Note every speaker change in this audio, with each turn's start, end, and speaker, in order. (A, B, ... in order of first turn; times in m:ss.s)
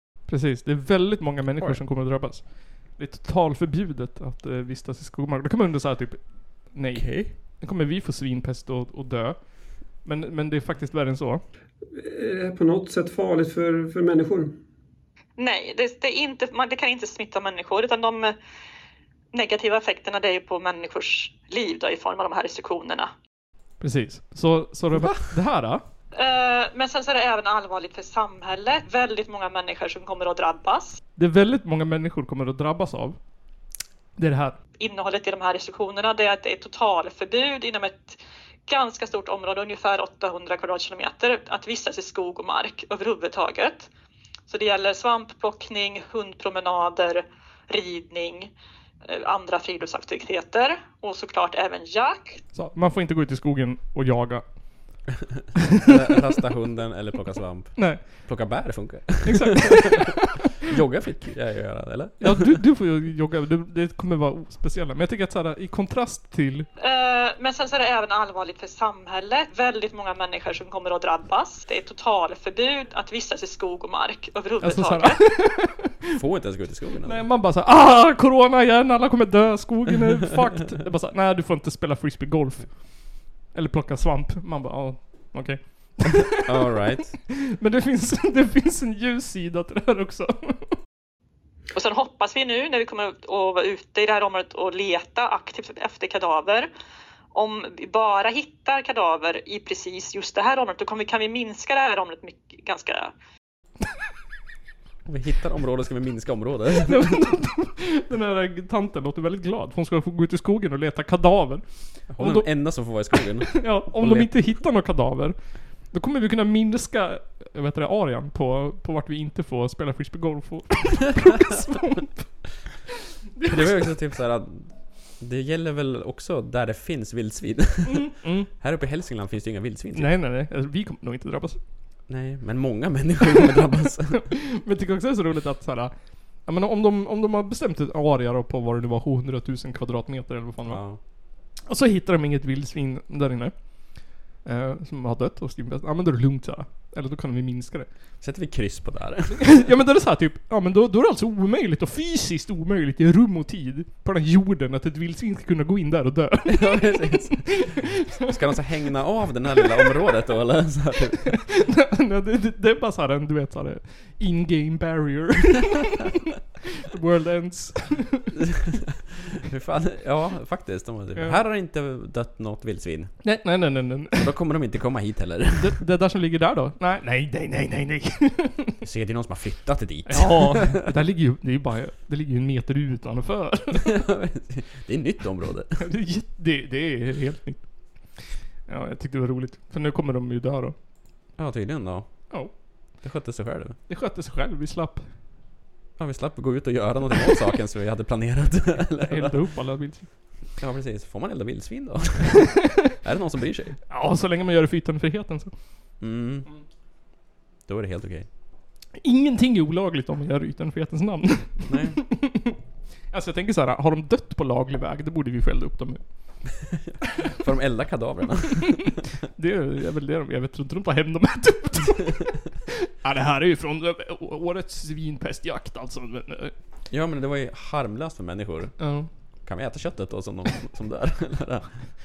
0:00.3-0:11.4 A
0:01.6-0:01.8 B
0:07.0-0:07.2 B
0:11.9-0:14.6 C
0:15.4-0:18.4 D
0:19.3-0:23.1 D
0:23.8-0:25.8 A
0:24.9-0:25.2 B
0:26.2-0:31.0 D
0:31.2-0:33.2 A
0:34.2-0:34.6 A
0:34.8-0:43.9 D
0:44.5-0:48.5 D
0:49.0-0:52.4 D
0:52.5-0:54.6 A
0:55.8-1:00.0 B
0:57.8-0:58.2 A
0:59.2-1:00.2 A
1:00.6-1:02.6 B
1:02.2-1:06.7 A
1:06.8-1:15.2 D
1:14.6-1:16.1 A
1:16.2-1:17.3 B
1:17.0-1:26.8 A
1:26.4-1:27.2 B
1:27.6-1:30.8 A
1:31.7-1:36.7 D
1:37.3-1:43.1 D
1:45.1-1:47.3 B
1:46.9-2:02.5 A
1:52.1-1:54.6 B
2:03.3-2:03.9 A
2:03.4-2:10.2 B
2:07.9-2:08.5 A
2:09.9-2:11.6 A
2:12.1-2:14.3 B
2:14.1-2:20.9 A
2:20.6-2:21.0 B
2:21.6-2:27.9 A
2:28.2-2:29.6 B
2:29.4-2:38.3 A
2:36.5-2:41.4 B
2:41.3-2:46.2 A
2:46.8-2:48.2 A
2:48.9-2:53.3 B
2:51.2-2:51.4 A
2:53.2-2:54.3 A
2:54.2-2:55.8 B
2:55.6-2:58.8 A
2:58.8-3:00.8 B
3:00.1-3:03.9 A
3:03.8-3:05.9 B
3:05.8-3:10.8 A
3:11.4-3:12.4 B
3:12.9-3:13.8 B
3:13.9-3:15.1 A
3:16.0-3:19.5 B
3:18.9-3:20.1 A
3:20.6-3:23.8 B
3:23.9-3:25.5 A
3:26.0-3:26.5 B
3:27.7-3:28.3 B
3:29.0-3:32.6 A
3:31.7-3:32.0 B
3:33.1-3:36.4 A
3:36.7-3:39.0 B
3:38.8-3:46.5 A
3:46.9-3:48.8 B
3:48.8-3:49.1 A
3:49.4-3:51.9 B